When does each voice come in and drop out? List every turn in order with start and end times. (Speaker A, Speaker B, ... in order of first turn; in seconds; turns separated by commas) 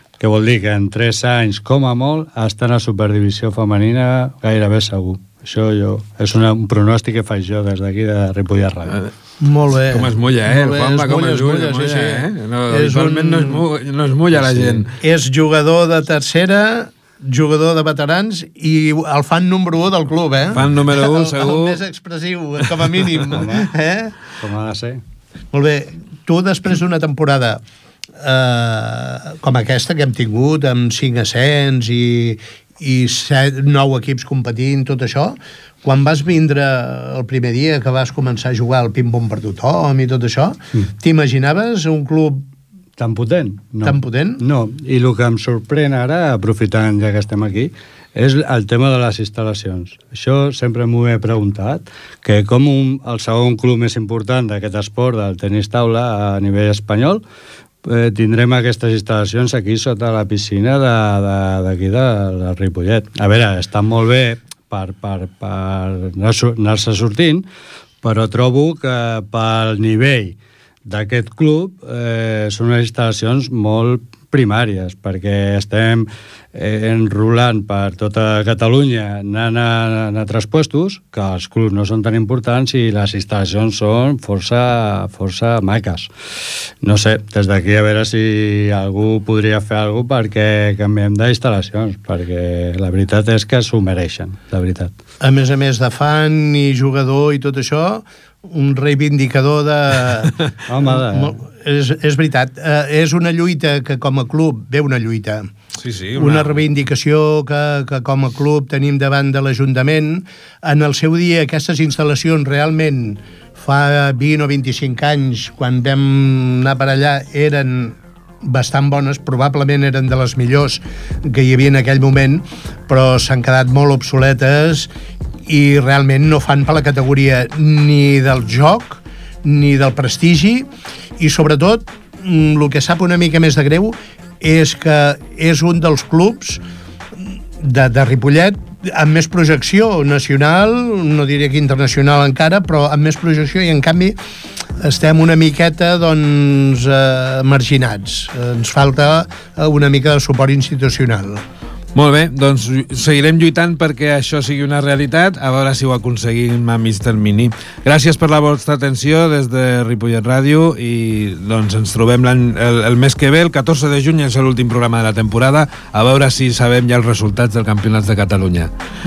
Speaker A: 0.2-9.0, Speaker B: 9.4-13.7, Speaker C: 9.9-14.9, Speaker A: 14.3-14.8, Speaker B: 15.0-24.1, Speaker C: 20.5-21.8, Speaker A: 23.4-23.7, Speaker A: 24.4-25.0, Speaker B: 25.5-27.6, Speaker B: 28.2-42.5, Speaker A: 43.0-57.2, Speaker B: 43.8-44.4, Speaker A: 57.8-67.5, Speaker A: 68.0-94.9, Speaker B: 95.2-105.5, Speaker A: 100.7-101.4, Speaker C: 105.8-106.6, Speaker B: 106.2-124.9, Speaker B: 125.5-136.6, Speaker B: 137.1-144.2, Speaker B: 144.8-151.4, Speaker C: 151.9-168.7